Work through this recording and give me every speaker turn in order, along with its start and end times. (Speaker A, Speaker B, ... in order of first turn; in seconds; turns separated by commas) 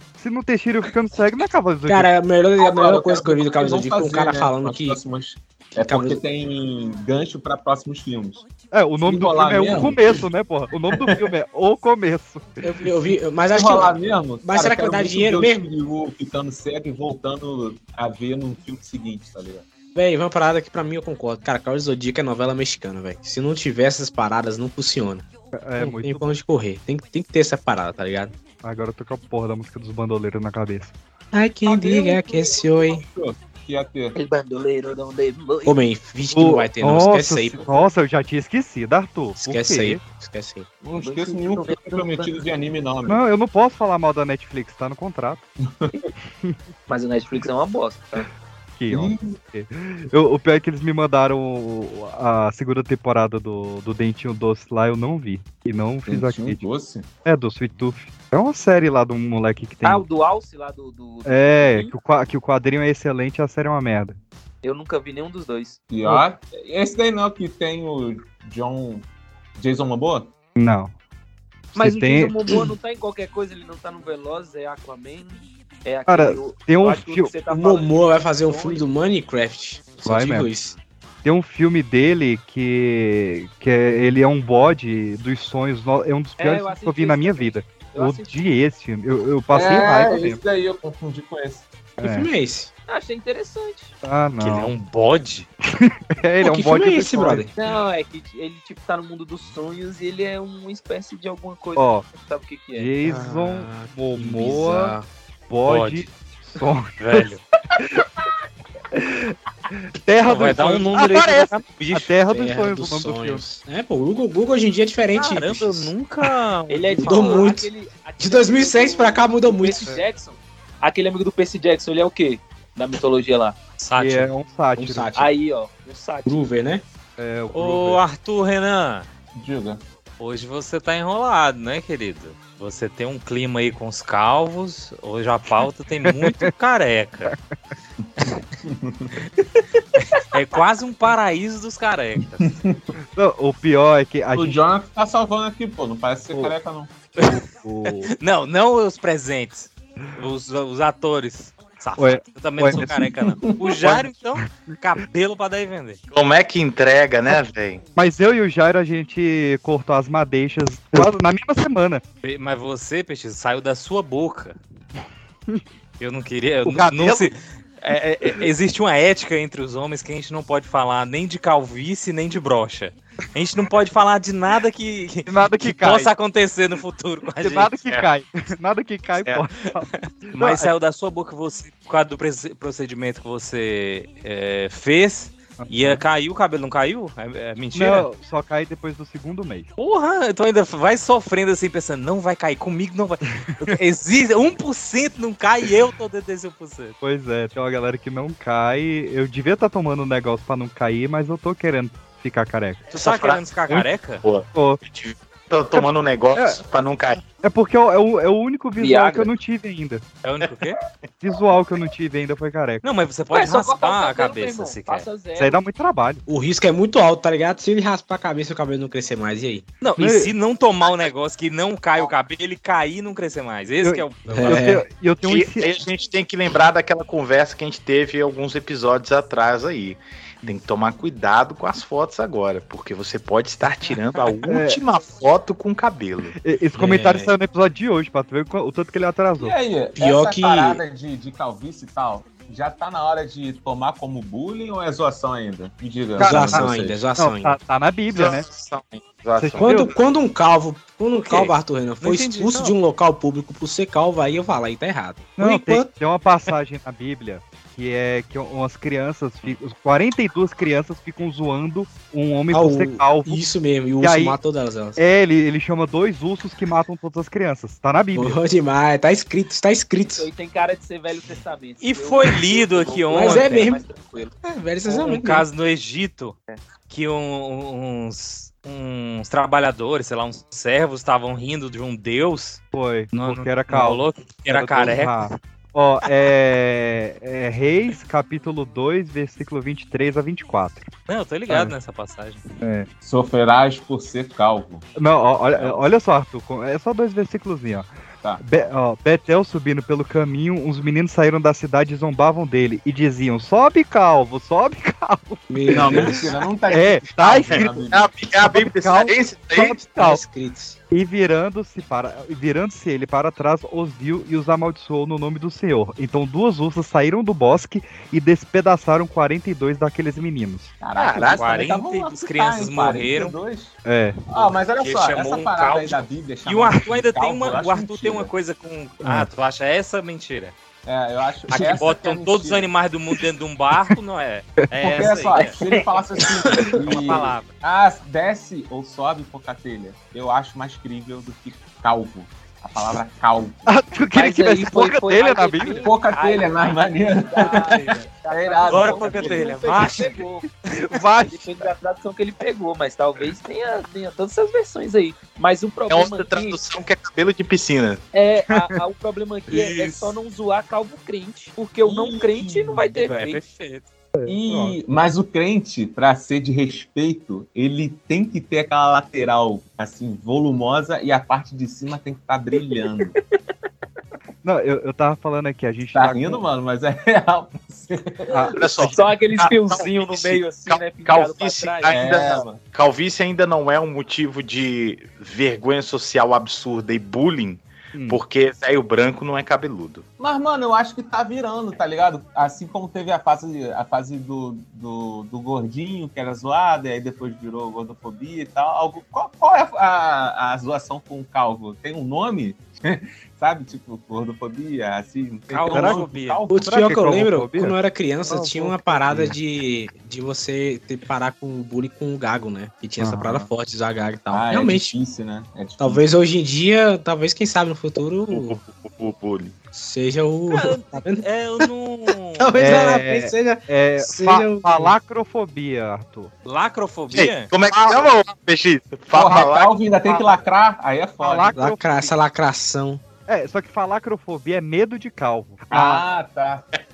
Speaker A: 0.2-2.1, Speaker B: 1.9-5.0, Speaker C: 2.6-8.4, Speaker B: 5.8-6.2, Speaker A: 8.7-12.7, Speaker C: 9.0-10.2, Speaker B: 12.6-15.7, Speaker C: 13.5-19.6, Speaker B: 19.9-25.3, Speaker A: 25.6-26.3, Speaker B: 25.8-28.3, Speaker A: 28.6-30.9, Speaker B: 31.3-33.0, Speaker C: 31.6-34.1, Speaker D: 34.1-35.8, Speaker B: 35.6-37.6, Speaker A: 36.3-40.0, Speaker B: 39.4-40.7, Speaker C: 40.8-43.2, Speaker D: 41.0-42.5, Speaker A: 43.0-45.5, Speaker C: 45.6-46.0, Speaker D: 46.9-48.3, Speaker A: 48.8-56.6, Speaker C: 48.9-49.4, Speaker C: 56.1-57.0, Speaker A: 57.2-60.0, Speaker D: 59.8-61.9, Speaker A: 61.2-64.2, Speaker D: 64.6-65.8, Speaker C: 65.9-70.3, Speaker A: 70.5-70.9, Speaker A: 71.7-72.3, Speaker D: 71.7-78.9, Speaker A: 76.1-77.3, Speaker B: 77.5-80.8, Speaker A: 80.0-80.5, Speaker A: 81.2-90.4, Speaker D: 86.4-88.4, Speaker C: 89.5-91.7, Speaker B: 92.0-92.7, Speaker A: 92.0-92.3, Speaker D: 92.9-93.9, Speaker A: 94.0-94.7, Speaker E: 94.4-95.5, Speaker A: 95.7-97.5, Speaker B: 96.4-97.5, Speaker D: 97.6-103.0, Speaker A: 101.8-102.0, Speaker A: 102.8-105.0, Speaker B: 103.0-105.1, Speaker A: 105.5-108.0, Speaker E: 105.7-106.1, Speaker E: 107.0-107.4, Speaker A: 108.9-113.4, Speaker E: 110.2-112.1, Speaker B: 112.3-115.9, Speaker E: 115.1-117.5, Speaker D: 116.7-123.6, Speaker B: 117.0-119.9, Speaker E: 123.8-124.3, Speaker A: 124.0-125.2, Speaker B: 124.8-125.3, Speaker D: 125.1-126.6, Speaker B: 126.2-126.8, Speaker A: 127.2-128.0, Speaker E: 127.5-129.1, Speaker C: 129.3-129.8, Speaker E: 130.2-137.3, Speaker A: 136.0-136.5, Speaker C: 138.6-139.2, Speaker E: 140.1-142.5, Speaker C: 142.4-142.8, Speaker A: 143.1-144.6, Speaker C: 144.3-146.9, Speaker E: 147.2-156.0, Speaker A: 147.2-148.1, Speaker A: 152.0-153.0, Speaker C: 153.3-153.9, Speaker F: 156.1-157.8, Speaker A: 157.9-162.0, Speaker E: 162.2-164.6, Speaker E: 166.0-177.7, Speaker A: 166.6-167.3, Speaker A: 175.3-176.1, Speaker A: 177.4-180.7, Speaker E: 180.0-188.1, Speaker A: 185.6-186.0, Speaker A: 187.7-189.7, Speaker E: 189.8-196.9, Speaker A: 197.0-202.9, Speaker F: 202.9-203.4, Speaker E: 202.9-204.2, Speaker F: 204.2-207.2, Speaker A: 204.5-204.8, Speaker A: 205.7-206.6, Speaker A: 207.4-210.0, Speaker D: 208.8-209.3, Speaker E: 210.2-210.8, Speaker A: 211.2-212.8, Speaker E: 212.8-215.1, Speaker D: 213.3-215.6, Speaker A: 215.4-216.2, Speaker B: 216.3-219.7, Speaker E: 219.8-224.7, Speaker A: 220.0-220.3, Speaker A: 223.8-225.8, Speaker B: 224.3-224.8, Speaker F: 225.2-236.3, Speaker A: 234.5-234.8, Speaker A: 236.4-239.5, Speaker B: 236.8-237.3, Speaker C: 239.4-247.1, Speaker B: 239.9-240.8, Speaker A: 246.2-248.4, Speaker B: 246.2-247.6, Speaker F: 248.1-250.0, Speaker A: 249.4-249.9, Speaker B: 249.6-255.9, Speaker E: 251.1-252.7, Speaker A: 255.4-263.4, Speaker B: 262.5-265.0, Speaker A: 264.0-264.4, Speaker A: 264.9-268.4, Speaker B: 268.1-270.3, Speaker D: 270.0-274.3, Speaker E: 271.8-273.8, Speaker B: 273.1-273.8, Speaker B: 274.4-275.4, Speaker E: 274.9-276.4, Speaker E: 276.9-282.6, Speaker A: 282.7-290.9, Speaker E: 283.1-285.3, Speaker E: 291.1-292.4, Speaker A: 291.5-291.7, Speaker A: 292.6-292.9, Speaker C: 293.0-294.8, Speaker A: 295.0-310.2, Speaker C: 295.6-295.8, Speaker B: 305.5-306.3, Speaker C: 305.6-308.1, Speaker F: 307.4-309.8, Speaker B: 309.6-310.8, Speaker A: 310.9-320.7, Speaker C: 320.8-323.8, Speaker F: 320.9-321.4, Speaker E: 321.2-323.4, Speaker A: 323.8-324.2, Speaker C: 324.3-328.3, Speaker E: 324.8-330.5, Speaker A: 329.0-329.3, Speaker C: 330.9-332.7, Speaker E: 331.5-335.6, Speaker A: 334.8-335.1, Speaker C: 334.8-343.7, Speaker E: 336.6-337.5, Speaker A: 343.7-345.9, Speaker D: 344.1-356.6, Speaker C: 345.8-349.6, Speaker E: 348.7-350.2, Speaker A: 350.7-351.5, Speaker F: 355.9-358.0, Speaker D: 358.1-363.4, Speaker C: 361.8-363.0, Speaker E: 363.0-363.9, Speaker A: 364.1-364.8, Speaker C: 364.2-373.1, Speaker A: 374.4-376.4, Speaker C: 375.9-378.4, Speaker A: 378.3-378.9, Speaker F: 378.6-390.0, Speaker D: 378.7-382.3, Speaker C: 381.9-382.6, Speaker A: 387.9-388.2, Speaker C: 390.2-406.6, Speaker E: 405.5-406.4, Speaker A: 405.7-406.0, Speaker B: 406.5-414.9, Speaker A: 406.6-409.4, Speaker A: 413.0-413.5, Speaker C: 414.3-416.0, Speaker B: 415.8-418.6, Speaker F: 418.3-419.5, Speaker B: 419.7-421.2, Speaker E: 420.5-422.5, Speaker B: 422.4-424.9, Speaker A: 422.6-426.3, Speaker E: 426.4-427.5, Speaker F: 427.1-429.8, Speaker C: 429.1-431.6, Speaker A: 430.1-430.4, Speaker A: 431.2-432.1, Speaker B: 431.5-433.0, Speaker A: 433.3-436.0, Speaker C: 435.7-436.6